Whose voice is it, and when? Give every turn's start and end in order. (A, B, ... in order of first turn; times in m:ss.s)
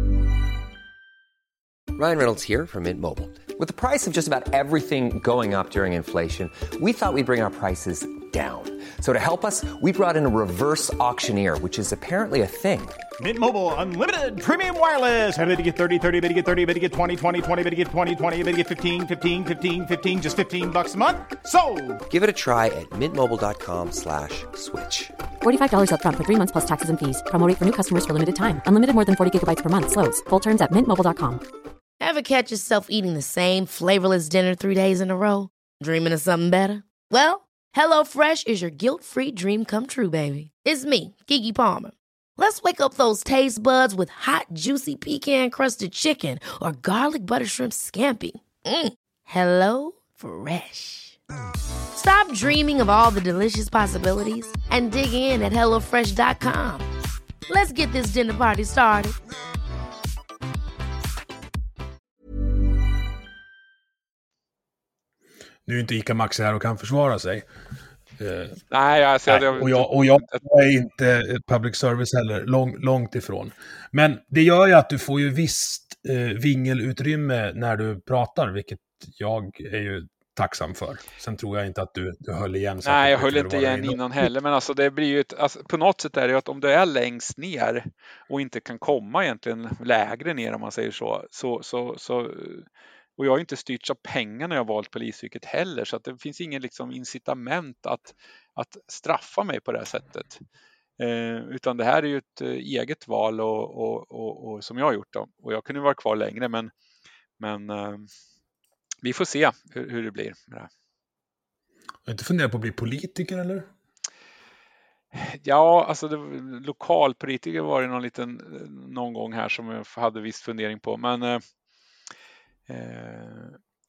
0:02.0-0:13.0 A
0:13.2-0:22.0 B
0:22.1-0:25.1 A
0:25.4-0:31.4 C
0:32.0-0:51.2 D
0:52.0-0:56.9 D
0:57.5-0:59.2 D
1:05.6-1:07.4 E
1:08.2-1:08.6 E
1:08.7-1:10.4 F
1:09.3-1:24.0 E
1:22.8-1:40.4 F
1:41.0-1:46.7 F
1:47.4-1:48.1 F
1:49.0-1:50.7 F
1:52.0-1:53.7 E
1:55.1-2:01.4 F
2:02.7-2:03.6 F